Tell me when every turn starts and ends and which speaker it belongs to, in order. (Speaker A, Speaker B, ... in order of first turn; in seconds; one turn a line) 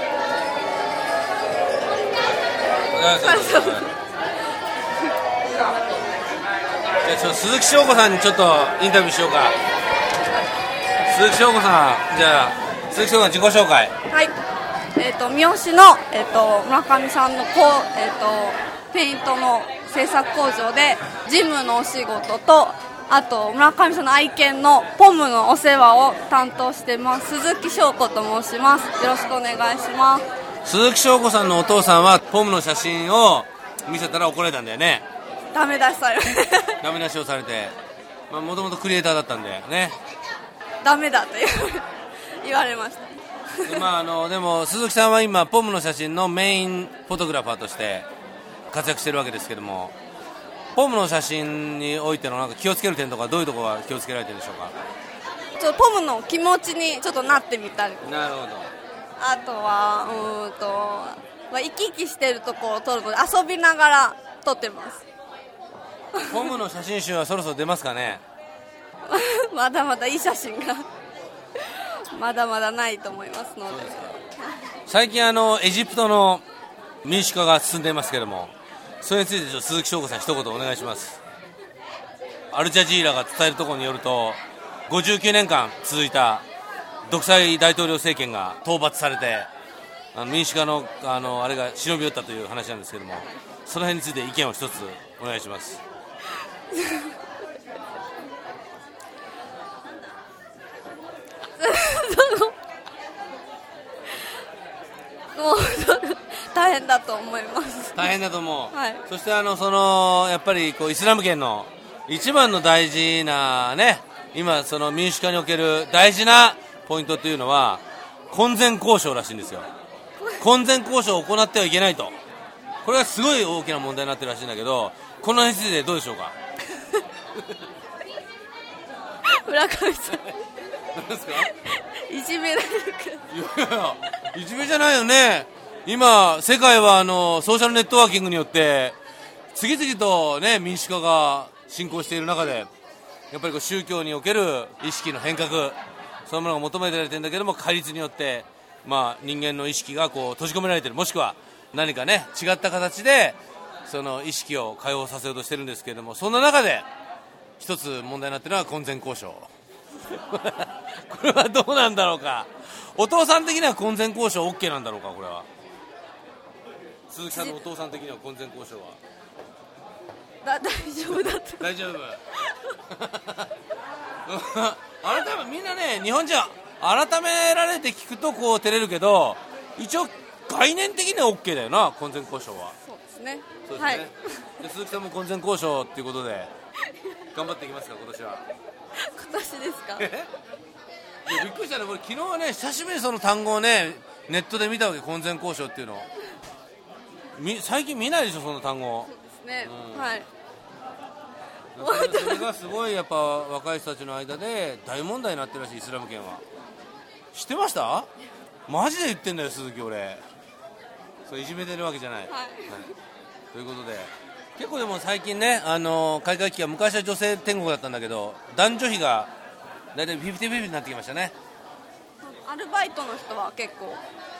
Speaker A: 2.9-3.9
Speaker B: 3.2-3.9
Speaker A: 7.0-9.6
Speaker A: 11.1-13.9
Speaker B: 14.1-14.3
Speaker B: 15.0-30.2
Speaker A: 30.6-35.0
Speaker B: 35.5-36.8
Speaker A: 36.8-37.8
Speaker A: 38.3-40.0
Speaker B: 40.8-41.9
Speaker B: 42.4-43.9
Speaker A: 43.6-48.1
Speaker A: 48.7-50.0
Speaker A: 50.8-54.8
Speaker B: 55.6-58.1
Speaker A: 58.0-58.7
Speaker B: 59.2-65.0
Speaker B: 66.2-66.5
Speaker A: 66.2-68.2
Speaker B: 69.0-70.9
Speaker B: 71.6-74.3
Speaker A: 73.7-74.2
Speaker A: 74.8-76.4
Speaker A: 77.0-81.2
Speaker A: 82.5-86.5
Speaker A: 87.1-89.5
Speaker A: 90.1-95.8
Speaker B: 96.7-97.1
Speaker B: 101.6-102.6
Speaker B: 105.3-108.1
Speaker A: 108.0-119.7
Speaker B: 108.7-109.0
Speaker A: 120.4-122.1
Speaker A: 122.8-126.3
Speaker B: 129.2-130.3
Speaker A: 130.9-131.5
Speaker B: 131.6-133.3
Speaker A: 133.3-139.0
Speaker A: 139.5-142.7
Speaker A: 143.3-156.9
Speaker A: 157.6-159.5
Speaker A: 160.1-165.5
Speaker A: 167.1-169.0
Speaker B: 167.3-167.6
Speaker B: 170.4-171.8
Speaker A: 171.1-172.2
Speaker A: 172.9-173.5
Speaker A: 174.3-182.8
Speaker B: 182.8-184.1
Speaker A: 183.7-186.5
Speaker A: 187.3-188.4
Speaker B: 189.0-190.1
Speaker A: 190.0-190.3
Speaker A: 191.2-196.1
Speaker A: 197.3-200.2
Speaker B: 199.1-200.3
Speaker A: 201.8-206.4
Speaker B: 201.8-202.5
Speaker A: 207.3-208.1
Speaker A: 208.7-210.2
Speaker A: 211.3-212.9
Speaker B: 212.3-212.9
Speaker A: 213.5-219.3
Speaker A: 219.9-221.3
Speaker B: 222.2-224.0